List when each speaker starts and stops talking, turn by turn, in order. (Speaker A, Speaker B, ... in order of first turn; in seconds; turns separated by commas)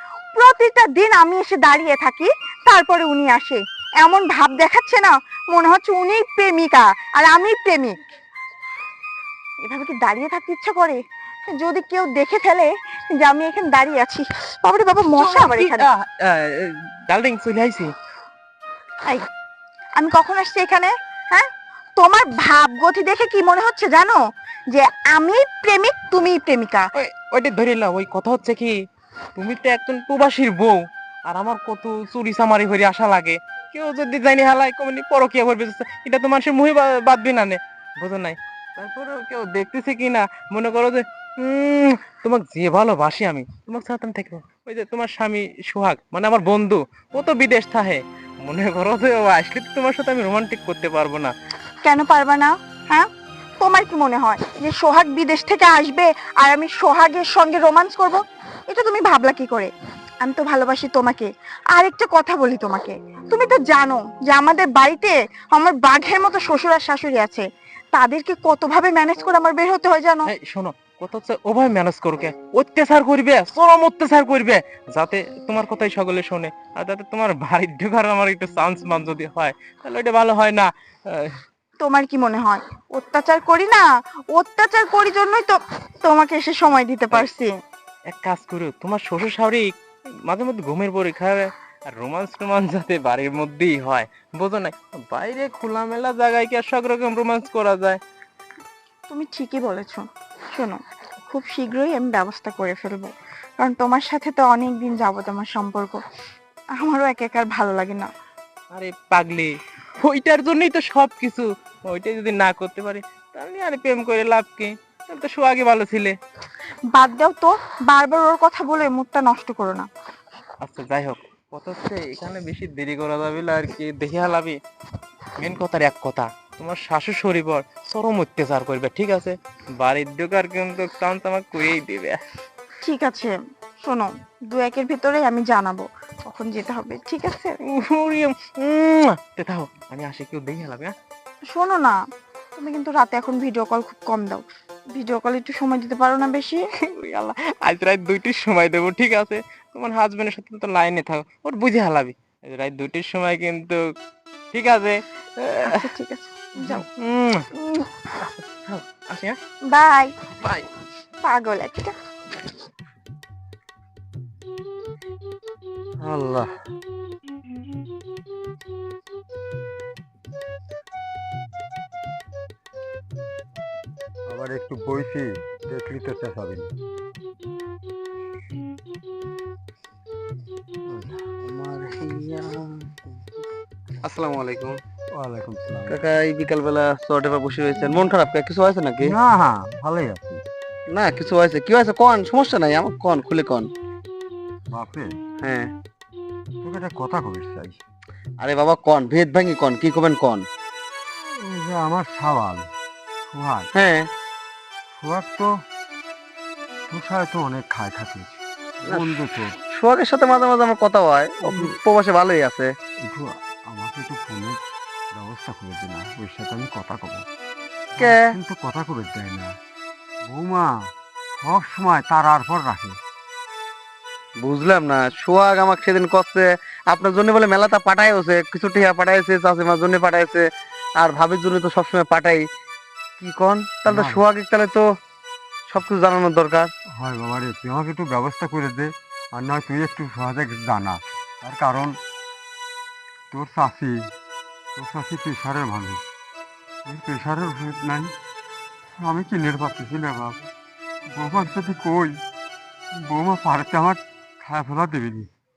Speaker A: 0.3-8.0, Speaker A: 9.6-15.9, Speaker B: 15.2-17.9, Speaker A: 20.0-26.9, Speaker B: 26.9-28.8, Speaker B: 29.4-51.3, Speaker A: 51.8-70.3, Speaker B: 70.2-81.4, Speaker A: 81.8-87.5, Speaker B: 88.1-98.0, Speaker A: 99.1-106.0, Speaker A: 106.7-108.1, Speaker B: 108.7-116.1, Speaker A: 116.9-119.9, Speaker B: 120.6-124.6, Speaker B: 125.4-132.2, Speaker A: 132.8-137.6, Speaker B: 137.7-140.9, Speaker A: 141.5-142.0, Speaker A: 142.6-146.6, Speaker B: 146.8-153.8, Speaker B: 154.5-155.8, Speaker A: 155.6-156.8, Speaker B: 156.6-157.5, Speaker A: 157.5-157.9, Speaker B: 158.2-159.4, Speaker A: 159.7-160.1, Speaker B: 160.4-160.7, Speaker A: 161.2-161.9, Speaker C: 166.0-166.5, Speaker C: 174.3-176.7, Speaker C: 180.9-183.1, Speaker D: 184.0-184.8, Speaker C: 185.1-186.0, Speaker D: 185.9-189.1, Speaker C: 189.0-190.4, Speaker D: 190.9-193.7, Speaker C: 194.7-195.1, Speaker D: 195.4-195.7, Speaker C: 196.6-197.8, Speaker D: 198.4-200.4, Speaker C: 201.4-202.7, Speaker C: 203.3-203.7, Speaker D: 203.7-204.1, Speaker C: 204.9-205.5, Speaker C: 206.9-209.6, Speaker D: 208.9-212.7, Speaker C: 211.4-211.7, Speaker C: 213.0-214.6, Speaker C: 215.1-217.2, Speaker D: 218.0-218.2, Speaker C: 218.0-219.5, Speaker C: 220.2-220.7, Speaker C: 221.3-223.0, Speaker D: 224.4-230.4, Speaker D: 231.0-232.4, Speaker D: 233.2-234.8, Speaker C: 233.9-234.2, Speaker D: 235.7-236.7, Speaker C: 236.9-241.9, Speaker C: 243.3-244.1, Speaker C: 244.8-246.0, Speaker C: 246.8-248.1, Speaker C: 249.0-250.4, Speaker C: 251.1-252.2, Speaker C: 253.0-255.3